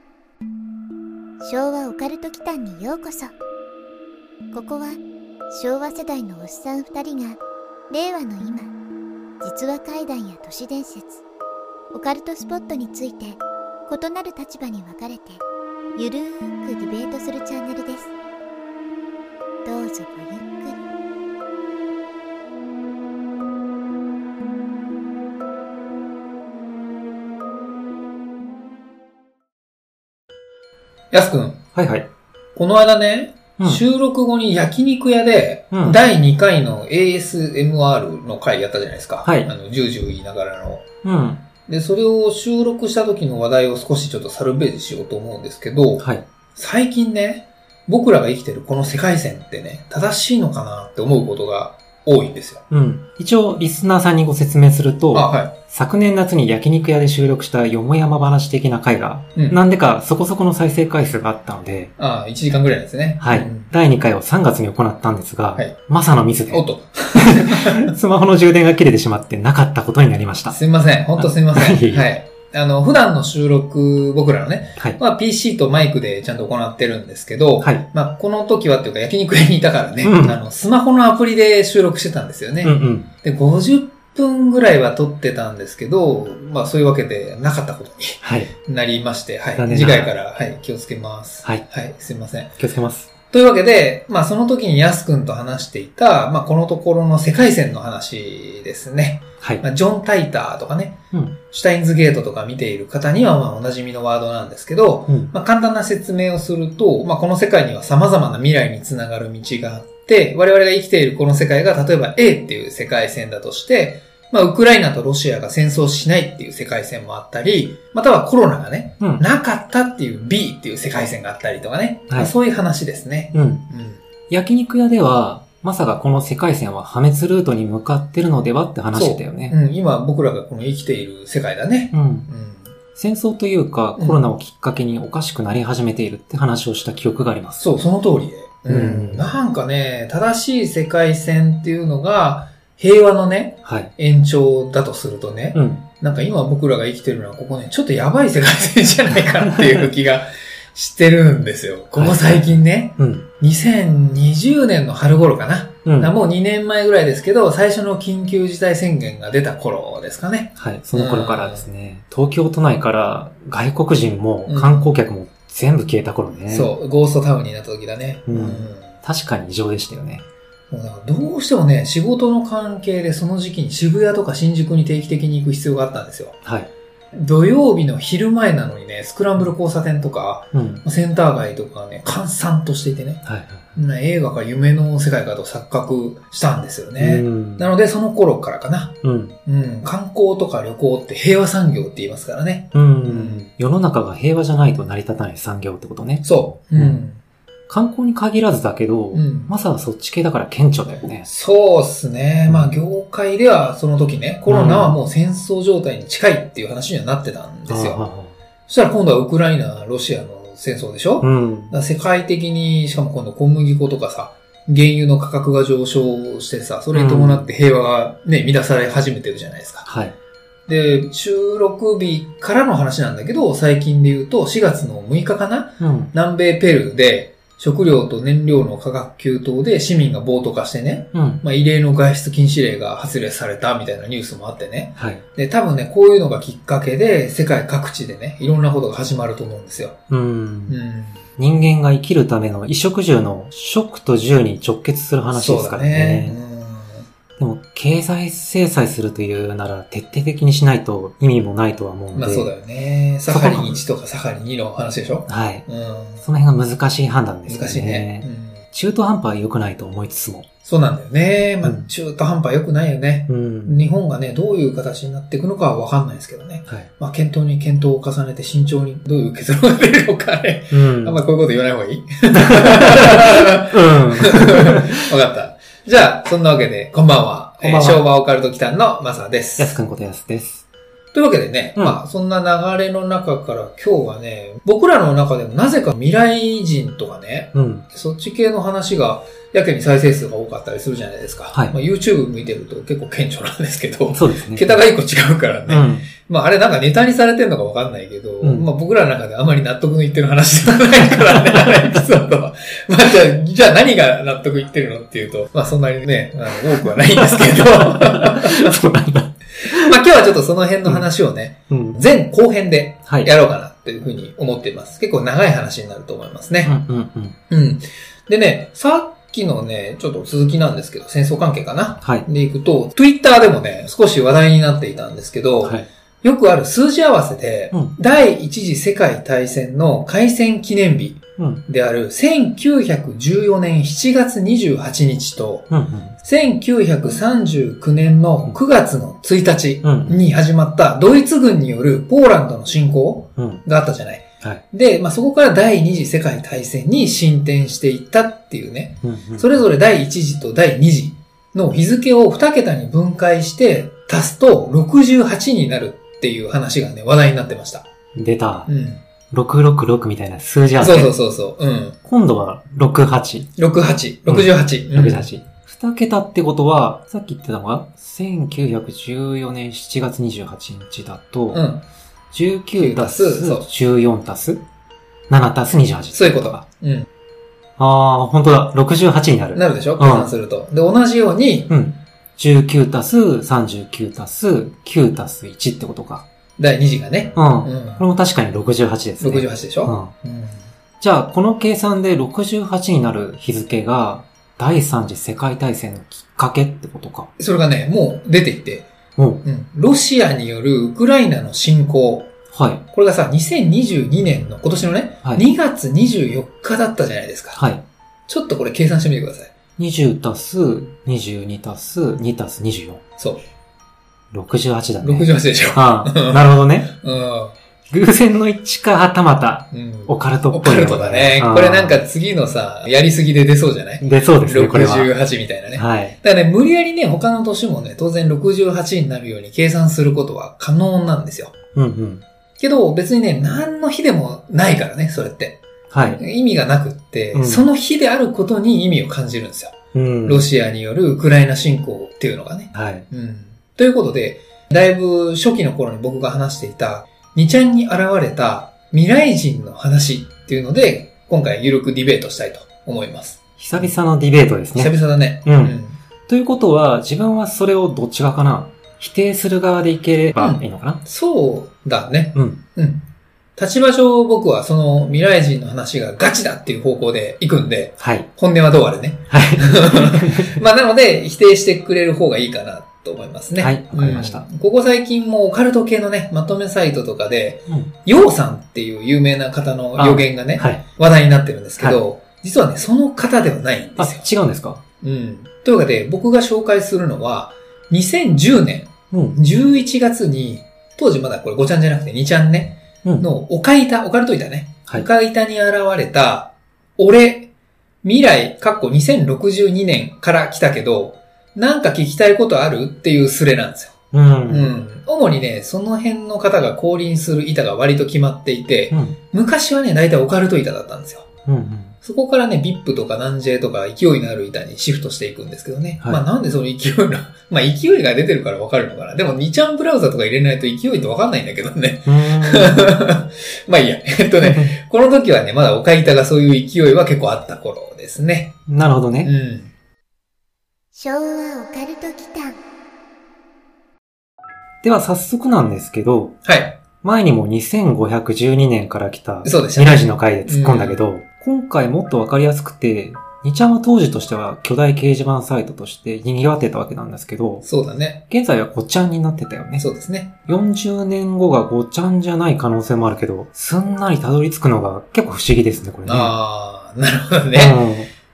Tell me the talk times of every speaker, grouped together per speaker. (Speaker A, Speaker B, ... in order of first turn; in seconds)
Speaker A: 1.4-3.3, 4.5-8.7, 9.4-11.2, 11.9-15.4, 16.0-18.1, 19.6-20.8, 530.9-532.6
Speaker B: 31.1-31.6, 32.6-40.9, 41.7-52.6, 55.1-55.5, 62.0-63.7, 66.5-67.9, 70.5-92.6, 93.3-124.0, 128.9-132.7, 134.0-134.2, 137.6-161.7, 164.5-164.9, 166.5-168.9, 170.7-176.4, 177.1-183.2, 183.8-193.5, 196.2-197.2, 199.1-199.5, 200.9-208.1, 208.7-219.9, 220.7-240.0, 240.7-241.2, 245.3-247.1, 252.2-256.2, 257.5-258.6, 260.6-279.8, 281.1-308.8, 309.6-316.8, 317.5-335.7, 336.2-357.9, 358.7-359.0, 360.8-362.0, 363.6-365.3, 371.5-371.8, 372.8-373.7, 376.1-377.1, 379.5-381.7, 386.6-388.1, 389.2-390.6, 397.4-398.9, 399.4-402.3, 402.9-407.6, 408.3-409.5, 415.0-417.6, 419.7-431.6, 432.6-435.6, 436.1-453.9, 454.7-456.0, 460.4-484.3, 485.0-497.5, 498.0-511.3, 512.0-528.6, 529.2-529.7, 536.5-536.8, 539.4-541.0, 547.6-548.2, 549.8-550.4, 556.0-557.9
Speaker C: 31.8-32.1, 35.7-36.0, 39.2-39.5, 41.0-41.4, 46.0-46.2, 52.7-61.9, 63.2-66.6, 67.2-70.6, 71.2-72.1, 80.0-80.4, 82.6-83.1, 88.2-88.5, 89.6-90.1, 92.6-93.1, 123.3-123.7, 124.3-129.6, 131.9-132.3, 132.9-137.6, 138.7-139.4, 143.7-143.9, 145.5-145.8, 149.5-149.9, 151.9-153.3, 155.9-156.1, 160.6-166.7, 168.3-170.3, 176.4-176.7, 180.5-180.8, 183.2-183.7, 187.0-187.7, 189.0-189.4, 192.7-196.2, 196.8-197.0, 197.7-201.3, 202.5-202.7, 204.5-204.9, 207.7-208.3, 211.2-211.8, 216.9-217.5, 219.8-220.2, 225.8-226.1, 231.1-231.4, 235.0-235.2, 240.1-240.8, 241.4-246.4, 247.4-252.5, 253.3-253.8, 255.3-255.7, 256.2-260.5, 261.6-261.9, 263.3-263.8, 270.7-271.2, 272.3-275.0, 277.6-278.0, 279.6-280.6, 287.5-287.9, 294.1-294.8, 295.7-296.1, 298.4-298.7, 301.1-302.0, 306.8-310.0, 311.7-312.0, 316.6-317.4, 331.4-331.6, 335.7-336.2, 339.8-340.2, 343.4-343.6, 349.0-349.5, 358.1-358.7, 359.3-361.1, 362.1-363.5, 364.3-371.6, 372.3-374.6, 375.3-376.6, 377.8-380.3, 381.7-386.3, 387.4-390.1, 391.0-397.3, 399.2-399.4, 402.5-402.8, 407.5-407.8, 409.8-413.0, 414.3-416.9, 417.9-422.0, 424.0-425.1, 425.7-426.2, 431.8-432.2, 435.9-436.2, 437.3-437.7, 439.9-440.5, 442.8-443.1, 453.6-461.0, 468.0-468.3, 469.3-470.6, 473.6-474.5, 480.0-480.8, 484.0-484.8, 489.1-489.4, 504.1-504.8, 508.9-509.2, 511.5-512.0, 522.1-522.8, 524.4-524.8, 528.7-529.3, 534.8-536.4, 537.0-547.6, 548.3-549.9, 550.5-556.3, 557.5-558.1